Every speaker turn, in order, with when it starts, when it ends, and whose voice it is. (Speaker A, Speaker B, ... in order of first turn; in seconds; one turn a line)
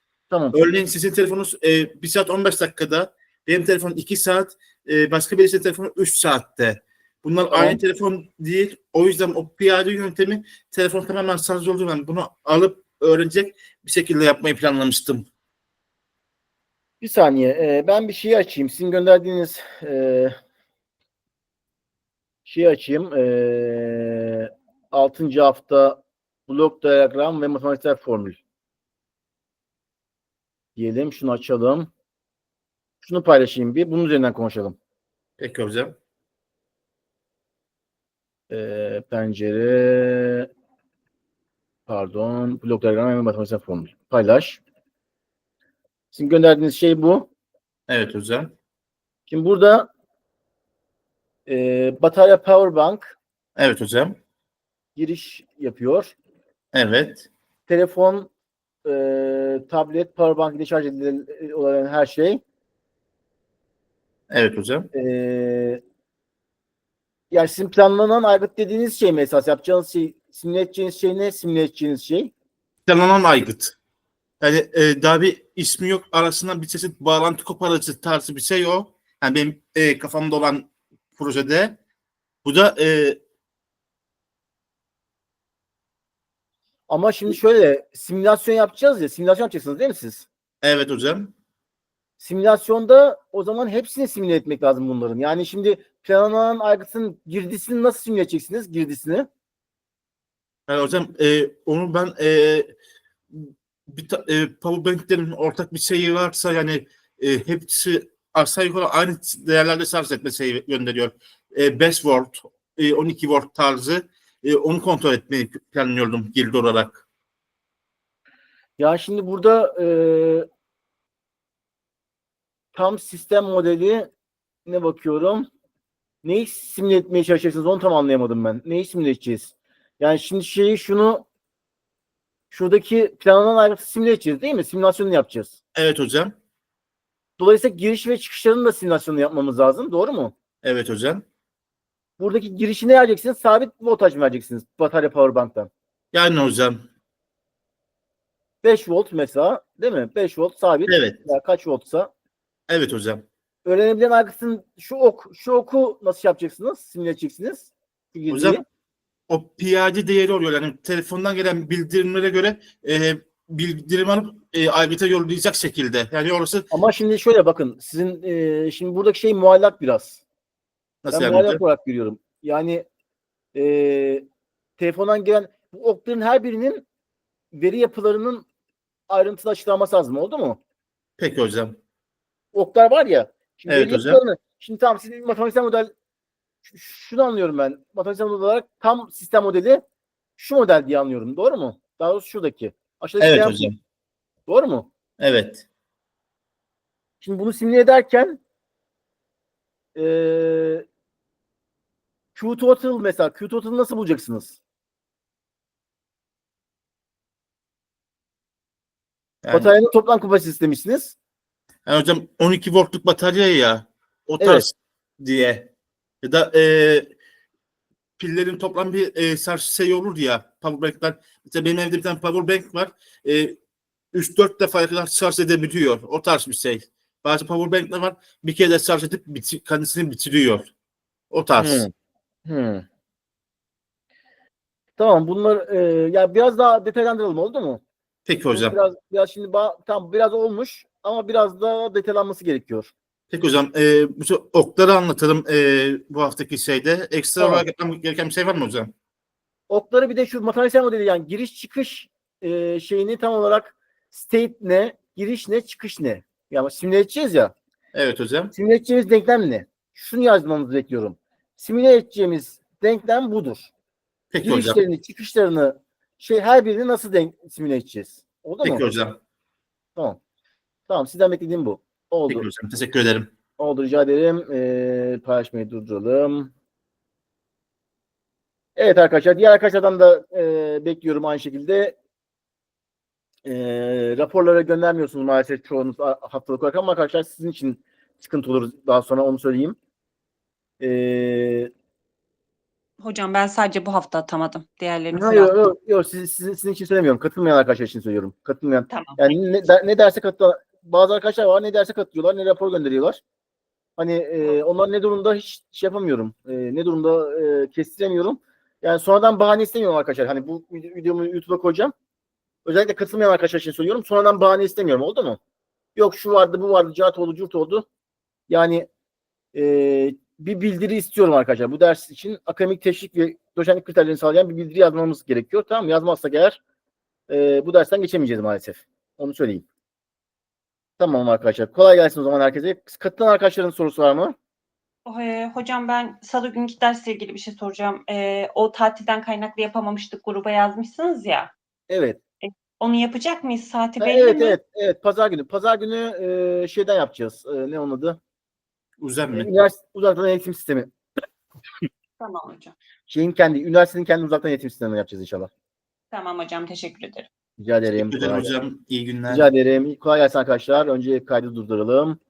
Speaker A: 0.3-0.6
Speaker B: 0.5-15.3
Speaker A: 7.5-7.8
Speaker A: 17.0-20.3
Speaker A: 22.4-28.4
Speaker A: 30.8-31.9
Speaker A: 33.0-34.8
Speaker B: 35.4-35.9
Speaker A: 38.5-40.5
Speaker A: 41.9-44.6
Speaker A: 46.1-47.3
Speaker B: 47.9-48.5
Speaker A: 49.3-49.9
Speaker A: 51.5-53.2
Speaker B: 53.6-54.2
Speaker A: 55.0-56.1
Speaker B: 56.7-57.3
Speaker A: 57.7-58.3
Speaker A: 58.9-62.4
Speaker B: 64.3-64.9
Speaker A: 64.9-65.8
Speaker A: 67.3-72.3
Speaker B: 72.9-73.8
Speaker B: 74.4-81.8
Speaker B: 82.4-83.2
Speaker A: 86.9-90.3
Speaker B: 90.6-91.3
Speaker A: 92.2-99.3
Speaker B: 100.7-102.7
Speaker B: 103.3-117.0
Speaker A: 118.8-120.5
Speaker A: 122.7-124.1
Speaker A: 124.7-125.5
Speaker A: 126.2-131.3
Speaker A: 132.5-135.6
Speaker B: 135.8-136.3
Speaker A: 137.4-140.3
Speaker B: 140.6-141.2
Speaker A: 142.2-145.7
Speaker B: 146.1-146.8
Speaker A: 148.6-152.1
Speaker B: 150.9-151.2
Speaker B: 152.7-153.2
Speaker A: 153.7-158.6
Speaker B: 158.3-158.6
Speaker B: 159.3-166.7
Speaker A: 166.7-170.2
Speaker B: 171.0-171.6
Speaker A: 171.1-172.8
Speaker A: 173.6-174.2
Speaker A: 174.8-176.8
Speaker A: 177.5-178.5
Speaker A: 179.1-180.6
Speaker B: 181.2-181.8
Speaker A: 182.5-185.9
Speaker B: 183.7-184.2
Speaker A: 186.6-189.8
Speaker A: 190.4-193.7
Speaker B: 193.2-193.8
Speaker A: 194.5-194.9
Speaker B: 195.2-195.6
Speaker A: 197.2-198.4
Speaker A: 199.9-200.9
Speaker A: 202.3-204.6
Speaker B: 209.4-209.7
Speaker A: 209.5-211.2
Speaker B: 211.9-215.7
Speaker A: 214.4-214.7
Speaker B: 216.2-217.1
Speaker B: 218.2-223.6
Speaker B: 224.1-230.7
Speaker B: 231.3-231.8
Speaker A: 231.6-231.9
Speaker A: 232.5-232.8
Speaker A: 235.0-237.8
Speaker B: 238.3-238.8
Speaker A: 238.5-242.9
Speaker B: 243.3-248.9
Speaker A: 247.4-247.6
Speaker A: 249.7-257.5
Speaker B: 257.9-258.5
Speaker A: 258.5-263.7
Speaker B: 264.3-264.8
Speaker A: 264.4-268.9
Speaker B: 268.6-269.2
Speaker A: 270.9-272.5
Speaker B: 272.3-273.3
Speaker A: 273.6-276.5
Speaker A: 278.8-282.0
Speaker A: 283.5-289.8
Speaker A: 290.8-291.7
Speaker C: 293.0-295.6
Speaker A: 295.1-303.2
Speaker C: 298.9-299.4
Speaker A: 304.0-311.9
Speaker A: 312.6-315.4
Speaker A: 316.0-317.9
Speaker A: 318.5-318.9
Speaker A: 319.5-326.6
Speaker A: 327.3-329.7
Speaker A: 331.0-334.4
Speaker C: 335.1-341.5
Speaker A: 341.9-342.2
Speaker C: 342.4-344.6
Speaker A: 344.0-348.2
Speaker B: 349.0-349.5
Speaker A: 349.3-350.9
Speaker C: 352.2-352.8
Speaker A: 353.1-355.5
Speaker C: 356.1-357.3
Speaker A: 357.6-358.5
Speaker B: 357.9-359.5
Speaker A: 359.3-362.2